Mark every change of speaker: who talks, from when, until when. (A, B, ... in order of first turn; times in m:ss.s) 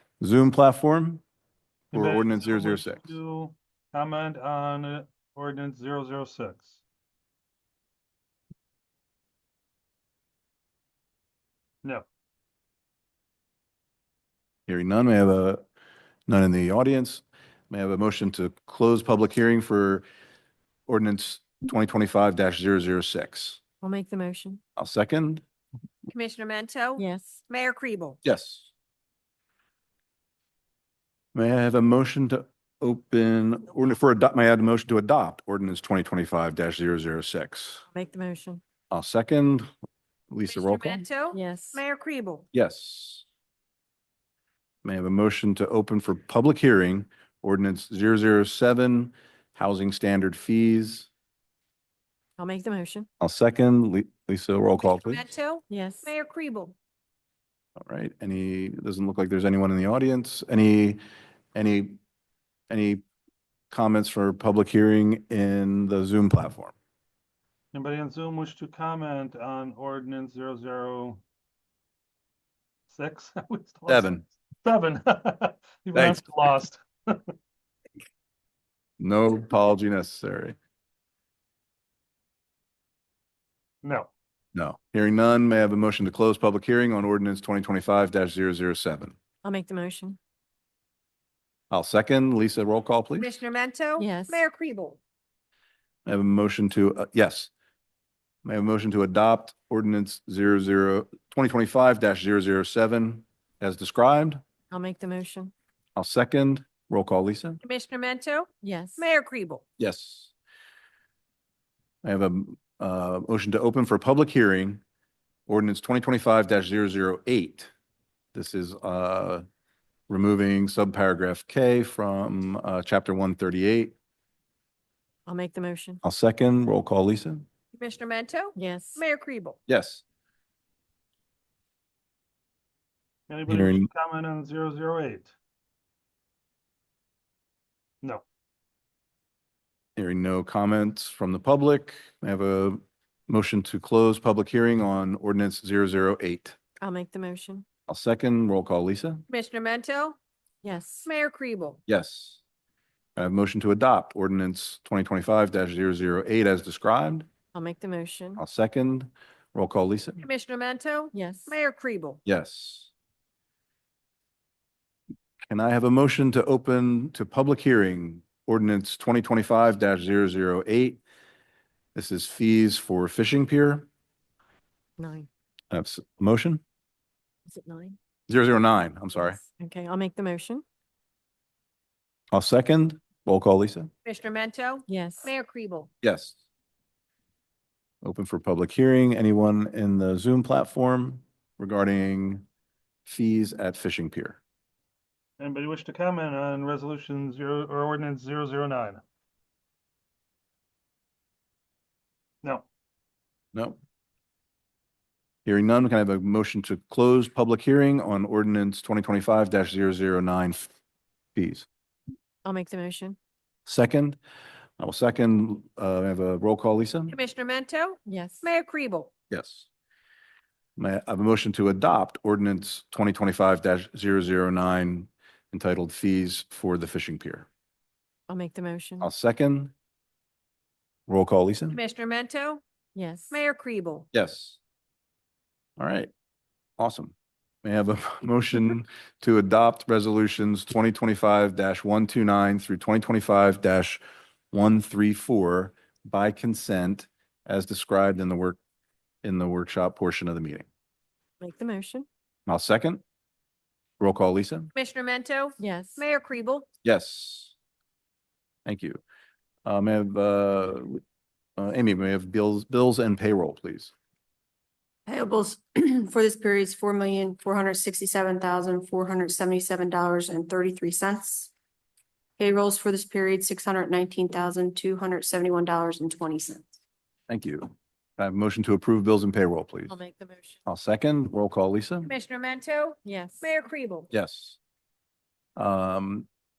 0:00.2-0:01.2 A
0:01.9-0:06.8 B
0:01.9-0:03.0 A
0:14.7-0:15.6 A
0:16.3-0:20.0 A
0:20.9-0:23.6 A
0:23.8-0:24.6 C
0:24.8-0:25.4 A
0:26.1-0:28.2 D
0:27.0-0:27.4 C
0:28.2-0:28.7 A
0:31.3-0:37.8 A
0:37.9-0:38.6 C
0:38.9-0:39.7 A
0:40.3-0:41.0 A
0:40.5-0:42.4 D
0:41.3-0:41.8 C
0:42.5-0:43.2 A
0:44.8-0:51.1 A
0:52.4-0:53.1 C
0:53.2-0:55.2 A
0:54.8-0:56.7 D
0:55.7-0:56.1 C
0:57.8-1:01.0 A
1:01.5-1:02.0 A
1:02.7-1:03.0 A
1:03.7-1:06.7 A
1:07.7-1:11.2 B
1:12.9-1:17.2 B
1:13.9-1:14.2 A
1:15.9-1:16.2 A
1:19.0-1:20.6 A
1:23.8-1:24.1 B
1:24.5-1:29.1 A
1:29.4-1:30.2 C
1:31.7-1:33.4 A
1:33.2-1:35.0 D
1:34.0-1:34.4 C
1:36.0-1:37.5 A
1:38.4-1:44.4 A
1:44.7-1:45.5 C
1:46.0-1:47.6 A
1:47.6-1:49.6 D
1:48.6-1:49.1 C
1:49.8-1:50.3 A
1:52.0-1:54.8 A
1:55.5-1:57.7 A
1:58.3-1:59.4 A
2:00.1-2:03.9 A
2:05.2-2:06.0 C
2:06.0-2:07.5 A
2:07.7-2:09.6 D
2:08.6-2:09.0 C
2:09.7-2:10.0 A
2:13.3-2:15.3 B
2:13.5-2:13.9 A
2:20.0-2:26.6 A
2:26.8-2:27.6 C
2:27.9-2:29.2 A
2:29.3-2:30.2 D
2:30.6-2:31.1 C
2:31.0-2:31.8 D
2:31.9-2:32.4 A
2:33.2-2:37.3 A
2:37.5-2:38.4 C
2:38.4-2:40.2 A
2:40.2-2:42.2 D
2:41.1-2:41.6 C
2:42.2-2:42.9 A
2:45.5-2:51.0 A
2:51.9-2:53.9 A
2:55.0-2:55.3 C
2:55.7-2:56.6 A
2:57.5-2:58.0 C
2:58.3-2:59.4 A
2:59.1-3:00.6 C
3:02.3-3:03.9 A
3:04.0-3:05.9 D
3:04.9-3:05.3 C
3:06.0-3:06.4 A
3:08.0-3:12.4 A
3:13.0-3:14.4 A
3:15.4-3:19.0 B
3:23.5-3:23.8 A
3:25.4-3:30.7 A
3:31.3-3:31.7 A
3:32.4-3:33.2 C
3:33.6-3:34.2 A
3:34.8-3:37.2 A
3:37.1-3:39.1 D
3:38.0-3:38.5 C
3:39.3-3:39.7 A
3:40.8-3:47.5 A
3:48.3-3:49.1 C
3:49.0-3:49.7 A
3:51.1-3:51.8 A
3:51.7-3:52.6 D
3:52.9-3:53.4 C
3:53.3-3:54.1 D
3:54.1-3:54.6 A
3:55.8-3:56.1 A
3:56.8-4:08.6 A
4:09.2-4:10.7 A
4:11.4-4:12.1 C
4:12.5-4:13.0 A
4:14.0-4:14.7 A
4:14.7-4:16.7 D
4:15.6-4:16.0 C
4:16.8-4:17.5 A
4:18.6-4:19.0 A
4:19.6-4:21.0 A
4:21.6-4:23.9 A
4:25.1-4:31.5 E
4:32.4-4:36.7 E
4:37.3-4:40.0 A
4:39.9-4:40.6 C
4:40.6-4:42.1 A
4:42.0-4:44.1 D
4:43.0-4:43.5 C
4:44.1-4:44.6 A
4:45.6-4:46.3 A